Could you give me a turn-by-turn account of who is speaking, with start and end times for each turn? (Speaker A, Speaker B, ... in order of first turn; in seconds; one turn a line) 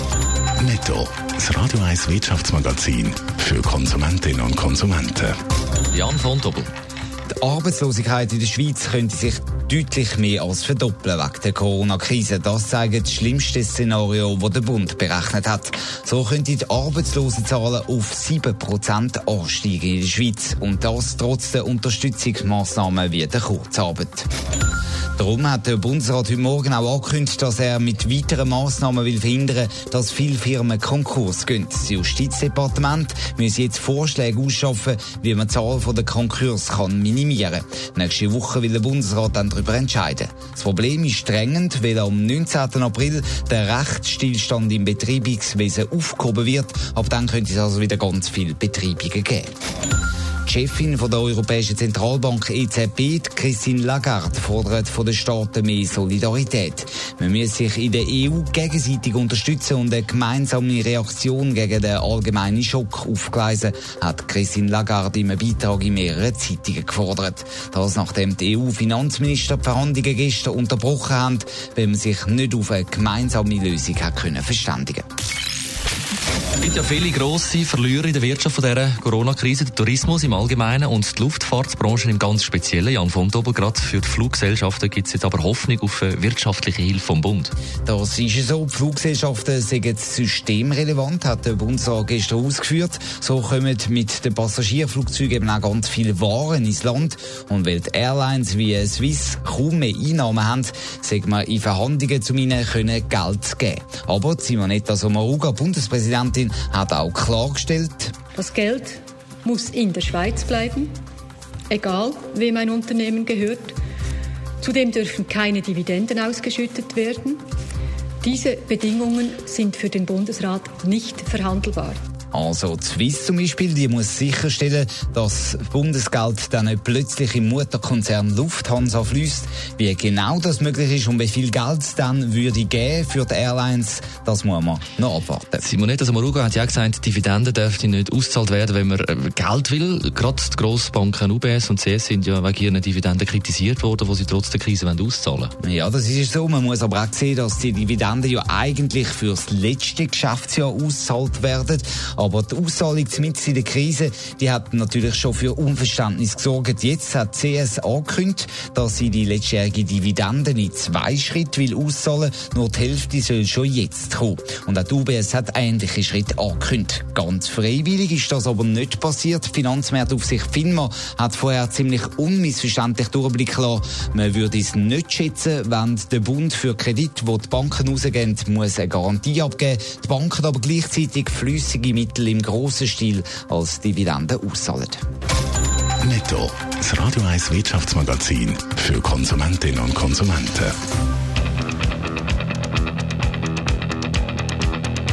Speaker A: 0.6-5.3
Speaker B: 5.9-6.7
Speaker C: 7.3-24.3
Speaker C: 25.2-49.5
Speaker C: 50.5-75.0
Speaker B: 76.6-87.5
Speaker C: 87.8-108.2
Speaker D: 108.3-110.9
Speaker D: 111.7-113.8
Speaker D: 114.6-117.4
Speaker D: 118.2-122.0
Speaker C: 122.3-135.6
Speaker B: 135.6-145.5
Speaker C: 145.6-185.0
Speaker A: 186.0-190.8